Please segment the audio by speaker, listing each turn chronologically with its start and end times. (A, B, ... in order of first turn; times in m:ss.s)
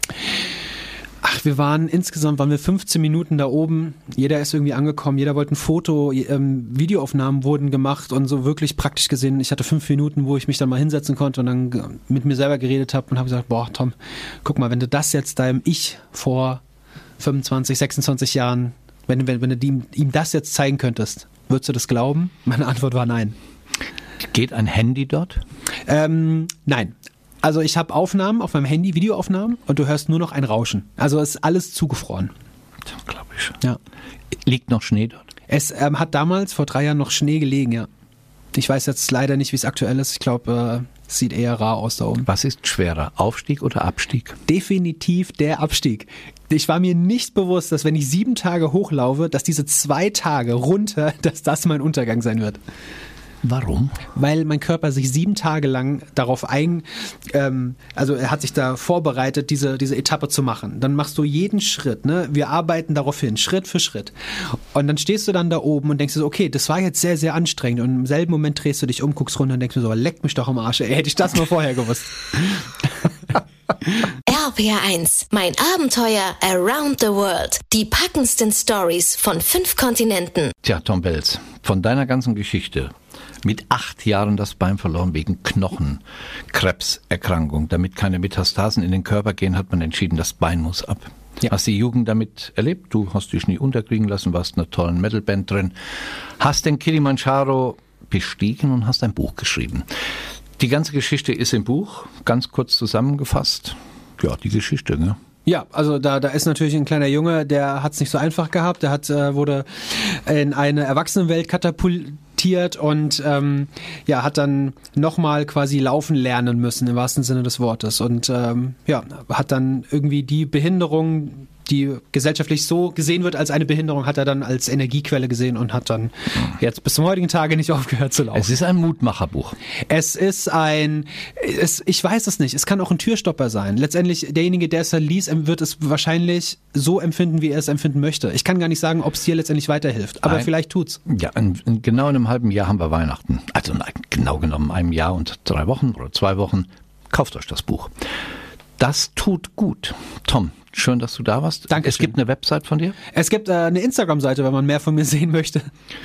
0:01.2-0:16.6 A
0:17.2-0:23.4 A
0:24.2-0:25.4 B
0:25.9-0:32.3 A
0:33.0-0:33.6 B
0:34.4-0:35.2 B
0:35.5-0:37.9 A
0:38.5-0:42.3 A
0:42.3-0:44.4 B
0:44.5-0:52.6 A
0:53.4-0:54.0 B
0:54.2-1:04.1 A
1:04.7-1:12.7 A
1:14.3-1:20.5 C
1:20.6-1:22.9 B
1:23.4-1:26.0 B
1:26.5-1:35.7 B
1:36.4-1:39.8 B
1:40.6-1:45.2 B
1:45.5-2:08.5 A
2:08.3-2:09.6 B
2:09.9-2:21.0 A
2:20.2-2:20.5 B
2:21.1-2:27.9 B
2:28.8-2:33.0 B
2:31.7-2:32.1 A
2:33.1-2:35.7 A